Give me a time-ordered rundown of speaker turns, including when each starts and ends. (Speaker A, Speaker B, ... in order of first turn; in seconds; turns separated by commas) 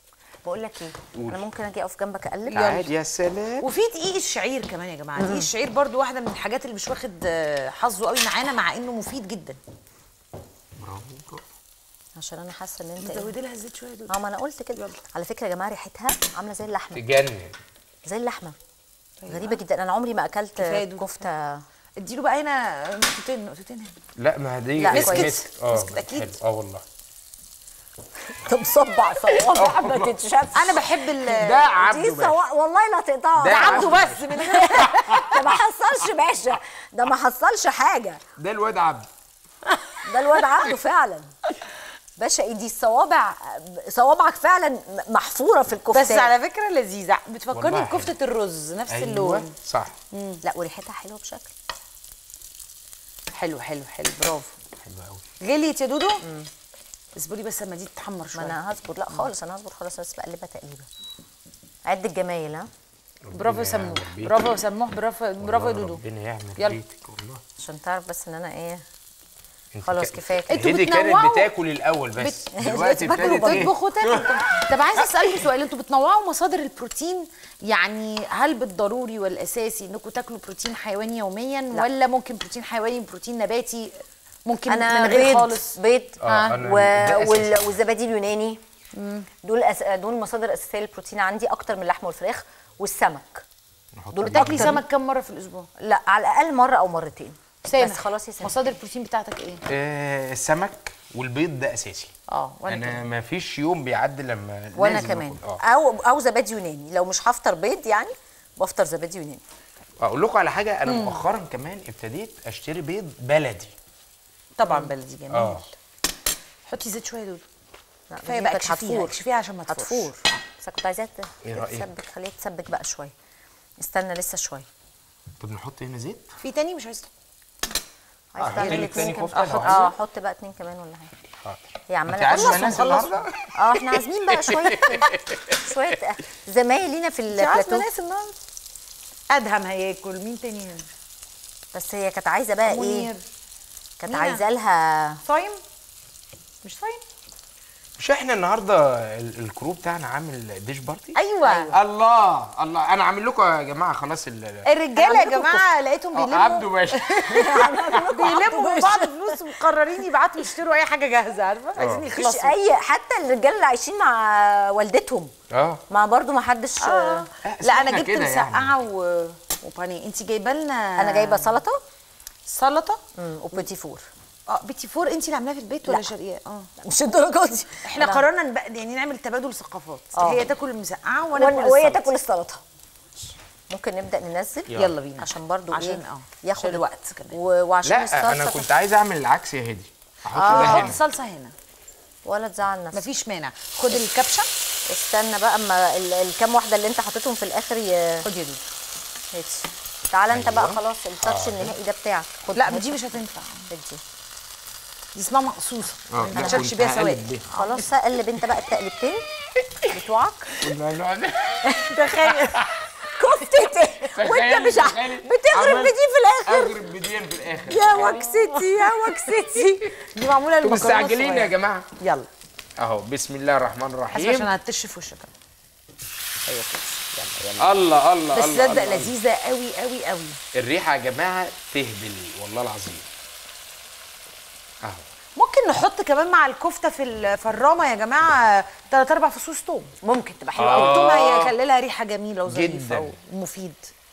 Speaker A: 0.4-2.9, Speaker B: 1.1-1.4, Speaker B: 2.5-3.7, Speaker C: 2.5-2.9, Speaker C: 3.6-9.6, Speaker A: 5.2-5.5, Speaker B: 10.8-11.4, Speaker A: 12.2-13.3, Speaker C: 13.0-14.1, Speaker A: 14.1-17.0, Speaker B: 16.9-17.5, Speaker A: 18.0-18.5, Speaker C: 19.2-19.6, Speaker A: 19.3-21.6, Speaker C: 20.6-21.2, Speaker C: 22.0-23.9, Speaker B: 24.2-26.8, Speaker A: 24.8-25.4, Speaker C: 24.9-26.4, Speaker A: 28.3-30.8, Speaker B: 29.5-30.1, Speaker C: 30.5-31.7, Speaker B: 31.2-32.4, Speaker A: 31.6-38.2, Speaker B: 33.3-35.6, Speaker C: 33.5-35.1, Speaker B: 38.4-39.1, Speaker A: 40.0-41.3, Speaker A: 42.2-46.3, Speaker C: 45.9-49.5, Speaker B: 47.5-48.1, Speaker B: 48.9-50.0, Speaker C: 50.1-50.4, Speaker A: 50.4-51.5, Speaker C: 53.3-54.5, Speaker B: 54.8-55.2, Speaker C: 55.4-56.2, Speaker A: 56.2-56.5, Speaker C: 57.1-58.6, Speaker A: 58.3-60.9, Speaker A: 61.9-62.7, Speaker B: 63.2-64.4, Speaker C: 63.3-66.0, Speaker B: 65.4-67.4, Speaker A: 67.6-68.8, Speaker B: 69.7-75.0, Speaker A: 69.8-70.6, Speaker C: 70.5-71.5, Speaker C: 72.2-86.6, Speaker A: 72.6-73.7, Speaker A: 84.7-88.6, Speaker B: 86.2-87.7, Speaker C: 88.9-89.3, Speaker A: 89.4-93.4, Speaker B: 94.0-94.8, Speaker A: 94.1-94.8, Speaker C: 94.3-95.7, Speaker A: 95.8-98.6, Speaker C: 97.6-99.6, Speaker B: 99.7-102.1, Speaker C: 102.3-103.0, Speaker B: 102.7-105.6, Speaker A: 104.7-109.4, Speaker B: 110.0-113.7, Speaker C: 110.8-111.2, Speaker C: 114.6-115.6, Speaker B: 115.3-115.7, Speaker C: 116.7-117.5, Speaker A: 118.1-123.1, Speaker C: 118.2-120.1, Speaker B: 121.4-121.9, Speaker A: 123.8-124.7, Speaker B: 125.4-126.3, Speaker C: 126.4-127.1, Speaker A: 128.3-131.1, Speaker B: 128.4-129.8, Speaker C: 128.5-129.9, Speaker B: 131.4-135.7, Speaker A: 131.9-132.9, Speaker C: 132.3-133.3, Speaker A: 133.5-137.9, Speaker C: 137.3-138.4, Speaker C: 139.3-140.8, Speaker A: 141.7-143.1, Speaker C: 142.6-143.2, Speaker A: 144.0-145.2, Speaker C: 144.0-144.4, Speaker C: 145.2-145.6, Speaker C: 146.6-147.0, Speaker B: 148.0-154.7, Speaker C: 151.1-151.8, Speaker C: 154.6-162.6, Speaker A: 154.9-155.6, Speaker B: 156.1-157.7, Speaker A: 157.3-159.5, Speaker B: 161.8-162.0, Speaker A: 162.1-165.3, Speaker B: 165.5-165.8, Speaker A: 165.9-167.3, Speaker C: 166.8-171.6, Speaker B: 167.4-168.8, Speaker A: 171.0-171.8, Speaker C: 172.5-173.0, Speaker A: 173.2-174.1, Speaker C: 174.5-176.7, Speaker A: 176.8-178.2, Speaker C: 177.8-182.1, Speaker A: 180.1-180.4, Speaker A: 181.3-182.6, Speaker A: 183.7-188.7, Speaker C: 184.7-187.4, Speaker B: 187.8-191.0, Speaker C: 190.3-191.5, Speaker A: 190.4-190.9, Speaker A: 192.2-193.0, Speaker C: 192.9-194.5, Speaker A: 194.9-198.6, Speaker A: 199.3-203.0, Speaker B: 200.3-201.7, Speaker C: 202.5-203.7, Speaker A: 203.7-204.0, Speaker C: 205.1-207.9, Speaker B: 206.1-207.5, Speaker A: 206.3-206.7, Speaker A: 207.5-209.2, Speaker A: 209.9-210.5, Speaker C: 209.9-210.4, Speaker B: 210.6-212.9, Speaker A: 211.7-211.9, Speaker C: 211.9-212.6, Speaker A: 213.1-216.8, Speaker B: 214.1-218.3, Speaker A: 217.7-219.9, Speaker C: 217.9-222.3, Speaker B: 220.6-221.9, Speaker B: 222.8-224.5, Speaker C: 224.1-225.3, Speaker C: 226.4-230.4, Speaker B: 227.6-229.1, Speaker B: 230.5-233.1, Speaker C: 235.3-239.9, Speaker A: 240.0-241.1, Speaker B: 240.6-241.5, Speaker C: 240.7-243.9, Speaker B: 242.4-243.1